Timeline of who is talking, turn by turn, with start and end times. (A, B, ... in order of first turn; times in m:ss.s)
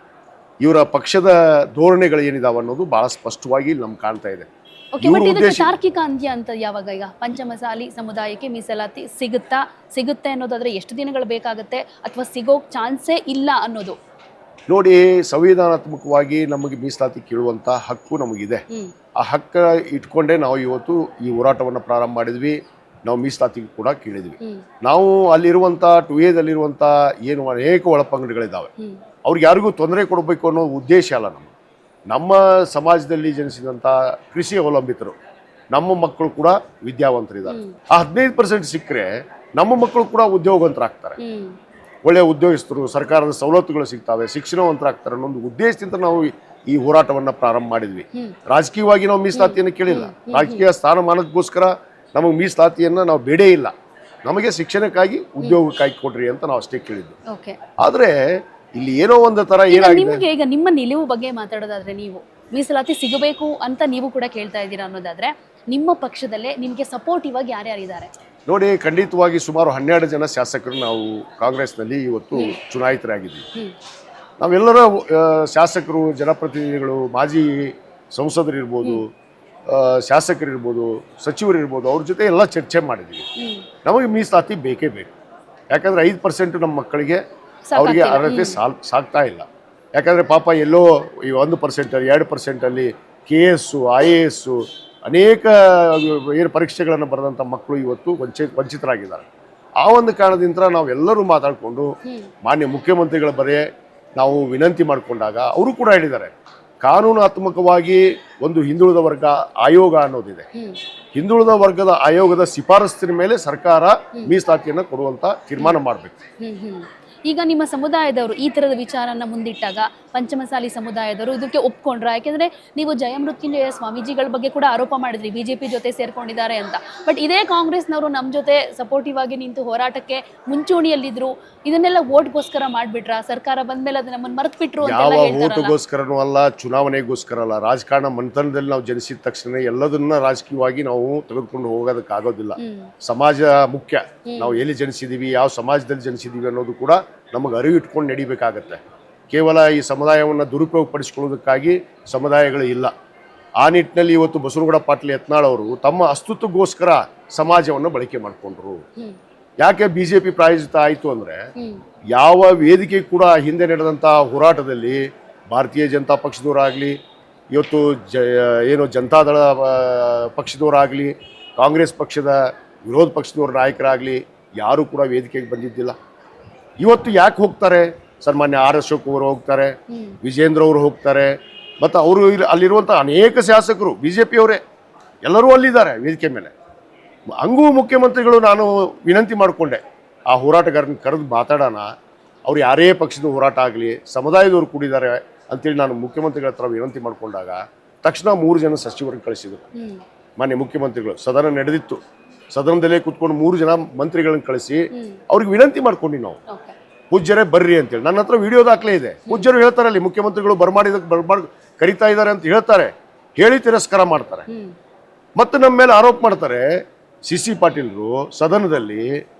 0:00.6-0:04.5 A
0:04.9-0:14.0 B
0:05.0-0:05.7 A
0:14.7-0:18.6 A
0:19.2-0:28.7 A
0:29.2-0:31.5 A
0:32.1-0:35.2 A
0:35.7-0:41.2 A
0:37.5-0:37.8 B
0:41.2-0:41.6 B
0:42.0-0:53.7 A
0:49.3-0:50.6 B
0:54.2-0:57.2 A
0:57.3-0:57.6 B
0:57.8-1:00.2 A
0:59.7-1:08.1 B
1:08.5-1:13.4 A
1:14.4-1:19.1 A
1:19.7-1:23.3 A
1:23.4-1:23.6 B
1:23.8-1:25.1 A
1:25.7-1:27.2 A
1:27.7-1:28.6 B
1:27.8-1:39.3 A
1:39.8-1:41.9 A
1:42.4-1:43.6 A
1:44.2-1:46.3 A
1:46.8-1:50.5 A
1:51.1-1:56.2 A
1:56.4-2:15.7 B
2:14.8-2:32.9 A
2:22.6-2:22.9 B
2:24.2-2:24.6 B
2:33.6-2:38.8 A
2:39.6-2:41.4 A
2:42.1-2:47.0 A
2:47.5-2:56.0 A
2:56.8-3:04.6 A
2:59.9-3:00.2 B
3:05.2-3:06.5 A
3:07.4-3:11.9 A
3:12.5-3:19.6 A
3:19.8-3:20.0 B
3:20.4-3:22.0 A
3:22.5-3:26.4 A
3:24.9-3:25.2 B
3:26.5-3:26.7 B
3:27.1-3:34.4 A
3:34.5-3:34.7 B
3:35.4-3:36.7 A
3:37.2-3:39.1 A